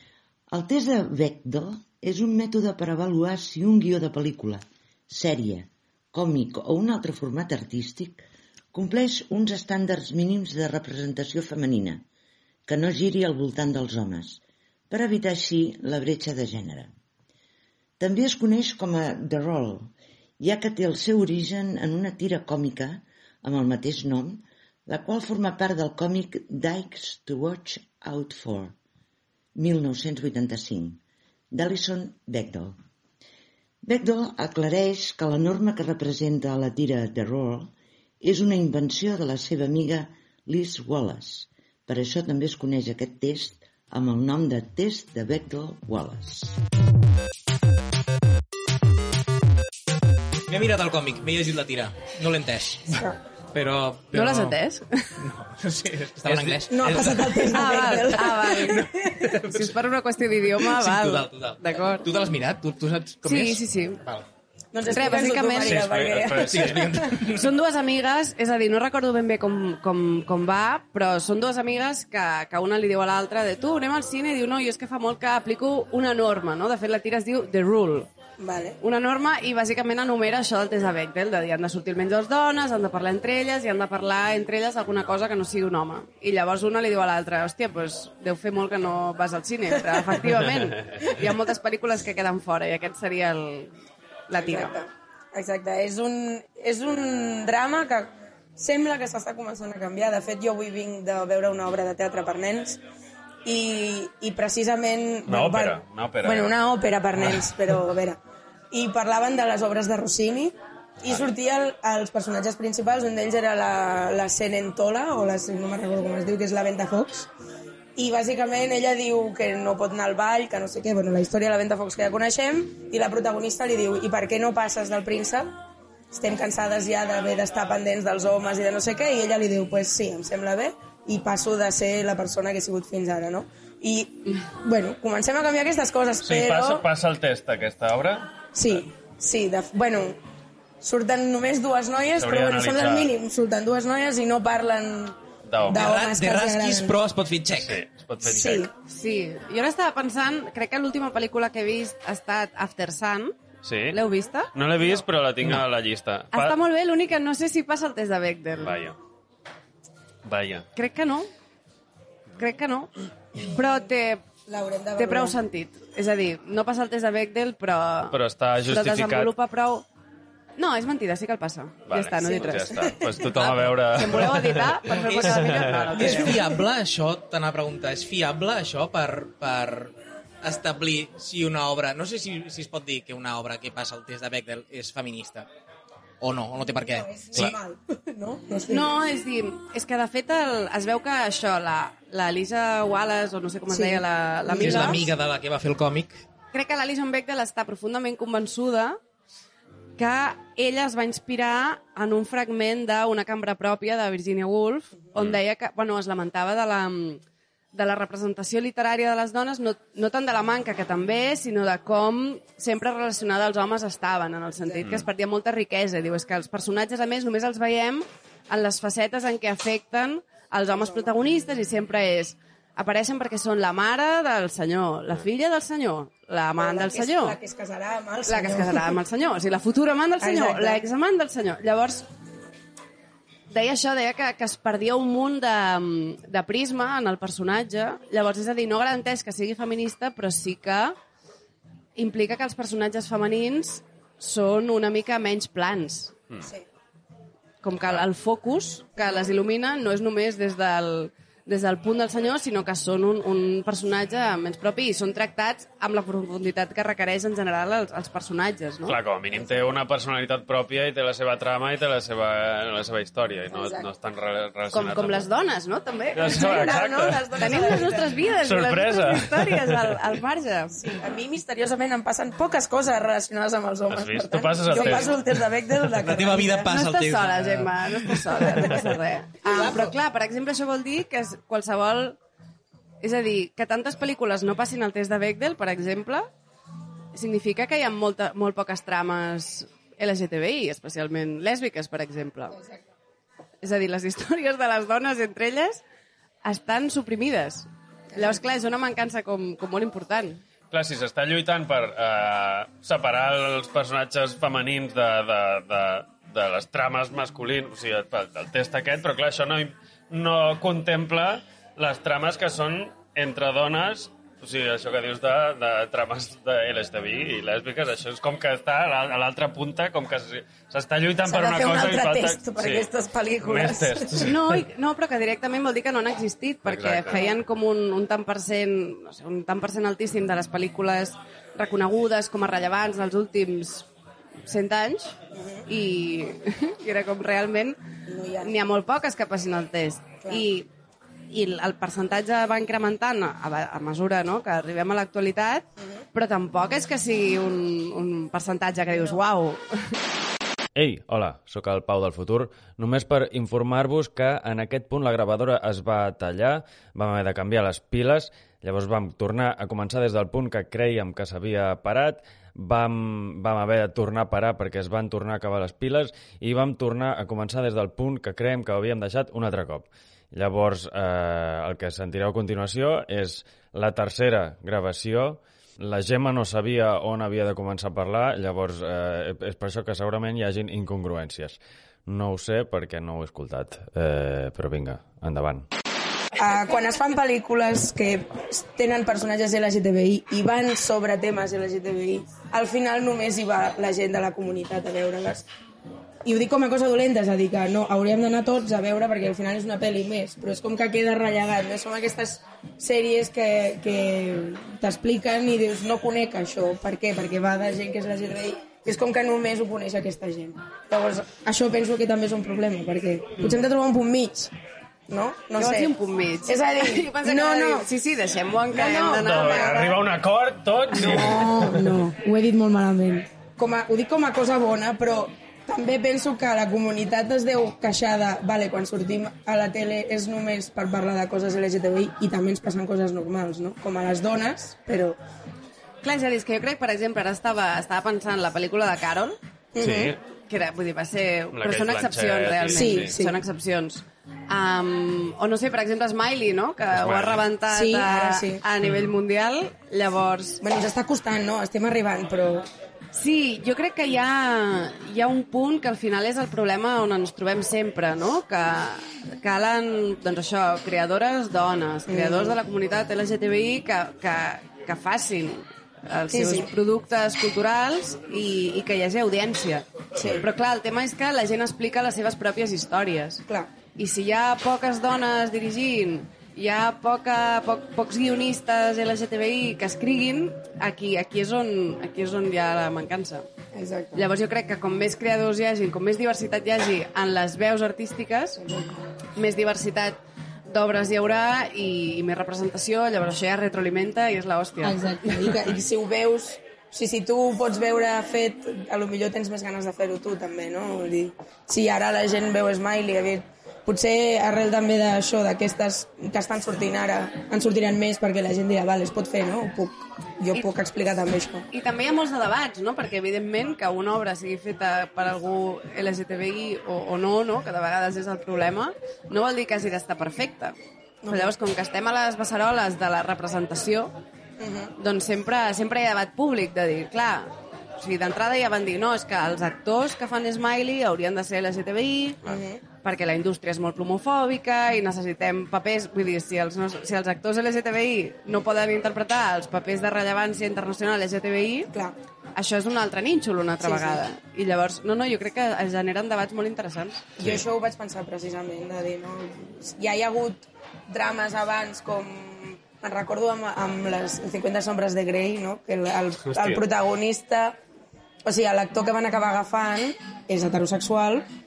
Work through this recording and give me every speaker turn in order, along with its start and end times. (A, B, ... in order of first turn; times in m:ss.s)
0:00.5-0:12.0 A
0:12.7-0:16.9 A
0:18.0-0:28.7 A
0:29.6-0:31.0 A
0:31.5-0:32.7 A
0:33.8-0:46.6 A
0:50.5-0:54.6 B
0:54.1-0:55.1 C
0:55.2-0:59.8 B
0:56.7-0:59.3 D
0:57.5-0:58.9 C
0:59.4-1:02.1 C
1:00.6-1:04.3 B
1:03.2-1:04.0 C
1:04.7-1:07.1 D
1:04.8-1:06.0 C
1:05.6-1:07.0 E
1:06.4-1:07.5 B
1:07.2-1:18.1 C
1:18.4-1:18.8 D
1:18.8-1:33.7 C
1:34.3-1:34.8 C
1:34.4-1:42.8 D
1:43.4-1:48.2 D
1:45.3-1:46.5 E
1:48.7-1:57.3 D
1:58.0-2:05.5 D
2:06.1-2:16.8 D
2:16.2-2:18.3 E
2:18.5-2:20.2 D
2:20.8-2:27.0 D
2:22.2-2:23.1 E
2:25.4-2:25.8 E
2:25.7-2:27.8 B
2:27.6-2:28.7 E
2:28.2-2:28.7 D
2:28.8-2:33.3 C
2:33.6-2:34.0 E
2:33.9-2:35.0 C
2:34.5-2:36.6 E
2:36.3-2:38.8 C
2:38.6-2:39.0 E
2:40.2-2:40.7 E
2:40.7-2:41.3 C
2:42.4-2:44.2 C
2:44.5-2:45.4 D
2:45.0-2:49.8 C
2:48.1-2:49.3 E
2:50.6-2:52.8 C
2:51.9-2:56.1 E
2:52.3-2:53.3 D
2:53.4-2:54.2 B
2:53.9-2:56.4 C
2:54.8-3:05.5 B
2:56.1-2:56.4 D
3:06.2-3:07.6 B
3:06.8-3:08.9 D
3:08.7-3:15.1 C
3:13.7-3:15.1 D
3:14.5-3:16.2 B
3:16.5-3:19.0 C
3:20.0-3:27.2 C
3:25.1-3:25.4 E
3:27.7-3:47.4 C
3:40.8-3:41.1 D
3:46.6-3:49.0 D
3:48.3-3:52.1 C
3:50.2-3:50.8 D
3:53.5-4:01.0 C
4:02.0-4:06.1 C
4:07.6-4:19.0 C
4:18.9-4:25.3 E
4:23.5-4:23.9 D
4:24.7-4:30.8 C
4:26.1-4:29.9 E
4:26.2-4:28.2 D
4:30.8-4:36.7 D
4:33.9-4:35.2 E
4:34.7-4:35.1 C
4:35.9-4:38.2 B
4:36.7-4:42.2 C
4:38.5-4:38.8 D
4:39.4-4:39.7 D
4:43.0-4:46.3 C
4:47.1-4:52.6 C
4:53.6-4:55.8 C
4:56.4-5:00.4 C
5:00.7-5:22.9 E
5:21.2-5:24.3 D
5:23.4-5:24.4 E
5:24.2-5:33.8 C
5:26.6-5:27.2 E
5:34.5-5:35.2 C
5:35.3-5:35.6 D
5:35.7-5:37.8 C
5:38.1-5:38.5 D
5:38.4-5:40.7 C
5:41.3-5:50.0 C
5:45.8-5:46.0 D
5:50.8-6:25.6 E
6:26.4-6:35.4 D
6:36.2-6:54.5 D
6:55.1-6:55.9 D
6:55.5-6:59.8 C
6:56.5-6:57.9 D
6:58.7-7:00.0 D
6:59.2-7:02.0 E
7:00.9-7:15.2 D
7:16.0-7:19.4 C
7:19.7-7:20.1 D
7:19.8-7:20.2 E
7:20.5-7:30.6 C
7:21.5-7:23.1 E
7:22.7-7:23.4 D
7:27.0-7:27.4 E
7:27.7-7:28.6 D
7:30.6-7:32.7 D
7:33.1-7:53.4 C
7:42.1-7:42.6 D
7:46.3-7:46.7 D
7:50.2-7:50.4 D
7:53.9-8:03.4 C
8:03.7-8:04.2 D
8:04.1-8:08.6 C
8:08.6-8:09.0 D
8:09.4-8:10.2 C
8:10.7-8:15.0 C
8:14.8-8:31.6 D
8:31.7-8:40.7 C
8:41.2-8:41.5 D
8:41.3-8:44.2 C
8:44.6-8:44.9 D
8:45.0-8:52.4 C
8:52.4-8:52.8 D
8:53.0-9:01.9 C
9:02.5-9:07.3 C
9:03.8-9:04.2 D
9:07.4-9:17.8 D
9:16.5-9:16.8 E
9:18.4-9:21.4 D